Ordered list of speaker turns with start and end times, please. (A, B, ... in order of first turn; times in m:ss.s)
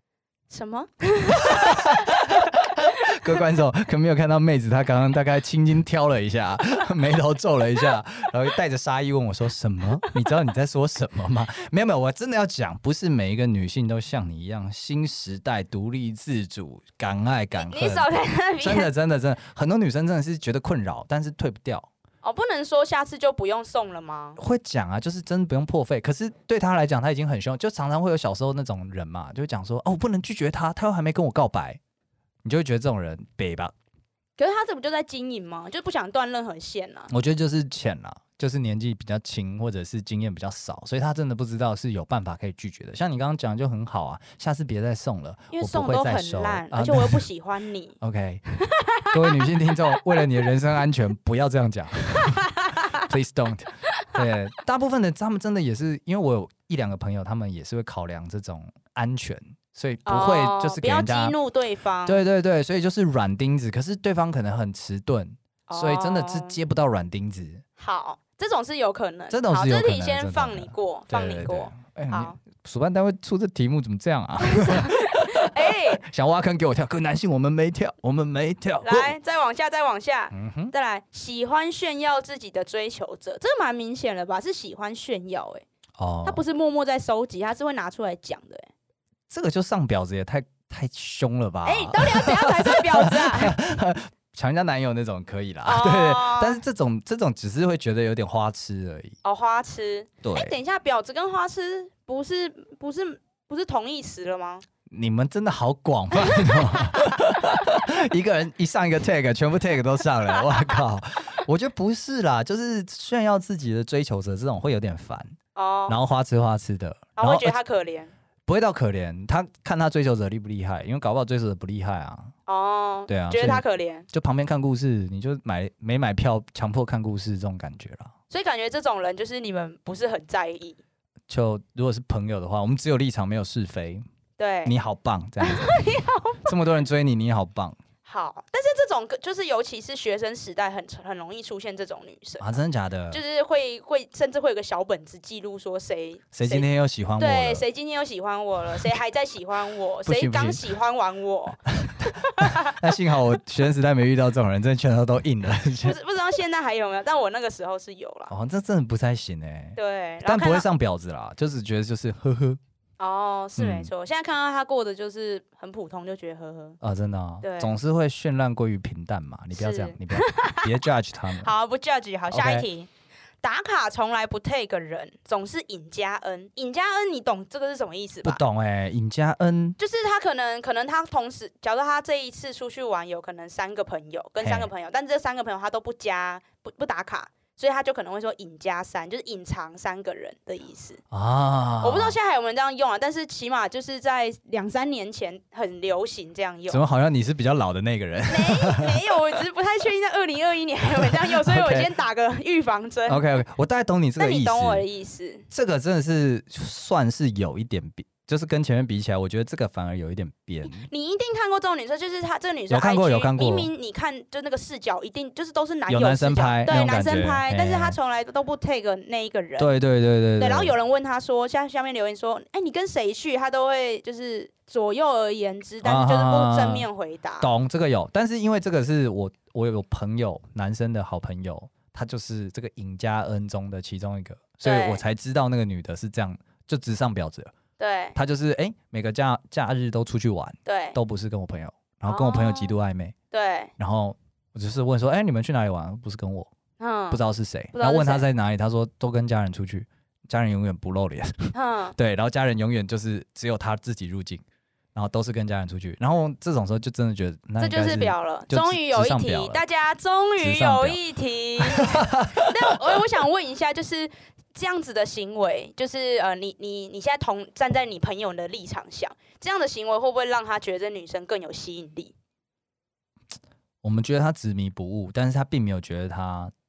0:00.5-0:02.6 A
0:01.4-0:18.1 B
0:17.5-0:18.9 A
0:18.6-0:21.9 B
0:22.2-0:24.4 A
0:24.4-0:31.8 B
0:32.4-0:33.7 B
0:34.4-0:37.1 A
0:37.1-0:47.3 B
0:45.5-0:48.0 A
0:48.0-0:48.4 B
0:48.6-0:49.5 A
0:49.1-1:01.3 B
0:52.2-0:53.1 A
1:00.0-1:02.2 A
1:02.0-1:07.6 B
1:05.7-1:06.6 A
1:07.8-1:12.4 A
1:09.3-1:19.2 B
1:14.4-1:16.0 A
1:18.8-1:25.6 A
1:20.3-1:20.7 B
1:26.0-1:26.4 B
1:26.2-1:28.7 A
1:29.3-1:39.2 B
1:31.6-1:33.6 A
1:35.6-1:36.6 A
1:39.2-1:44.6 A
1:40.2-1:40.5 B
1:44.9-1:55.4 B
1:46.2-1:47.4 A
1:50.4-1:50.7 A
1:55.5-1:56.0 A
1:55.9-1:57.6 B
1:57.2-1:58.1 A
1:58.5-2:02.3 B
2:02.5-2:04.1 A
2:03.1-2:08.1 B
2:08.3-2:10.8 A
2:11.3-2:14.0 B
2:14.4-2:14.7 A
2:14.6-2:15.8 B
2:15.4-2:16.5 A
2:16.4-2:17.8 B
2:18.0-2:22.6 A
2:22.4-2:23.2 B
2:23.1-2:26.7 A
2:26.3-2:27.6 B
2:27.2-2:32.8 A
2:30.0-2:30.6 B
2:31.8-2:36.0 B
2:35.8-2:38.3 A
2:38.3-2:42.6 B
2:39.8-2:40.7 A
2:43.0-2:46.8 A
2:43.6-2:43.9 B
2:46.8-2:51.5 B
2:47.4-2:47.7 A
2:49.5-2:50.7 A
2:51.4-2:52.9 A
2:52.3-2:52.6 B
2:53.4-2:58.4 A
2:58.2-2:59.8 B
2:59.8-3:11.0 A
3:04.4-3:04.7 B
3:11.1-3:12.1 B
3:11.8-3:16.8 A
3:16.7-3:19.0 B
3:18.3-3:23.2 A
3:21.1-3:21.9 B
3:23.1-3:24.8 B
3:24.2-3:25.4 A
3:25.5-3:30.9 B
3:30.6-3:39.7 A
3:32.7-3:33.7 B
3:35.9-3:38.0 B
3:39.6-3:40.7 B
3:40.4-3:47.5 A
3:45.8-3:46.8 B
3:47.4-3:57.5 B
3:54.6-3:55.0 A
3:57.8-3:58.2 A
3:58.1-4:03.1 B
4:00.6-4:01.0 A
4:02.0-4:02.7 A
4:03.3-4:03.7 A
4:03.8-4:06.5 B
4:06.8-4:07.2 A
4:07.1-4:14.4 B
4:07.7-4:08.2 A
4:11.5-4:12.0 A
4:14.9-4:19.6 B
4:17.6-4:32.1 A
4:20.4-4:21.0 B
4:21.6-4:23.0 B
4:33.8-4:36.5 B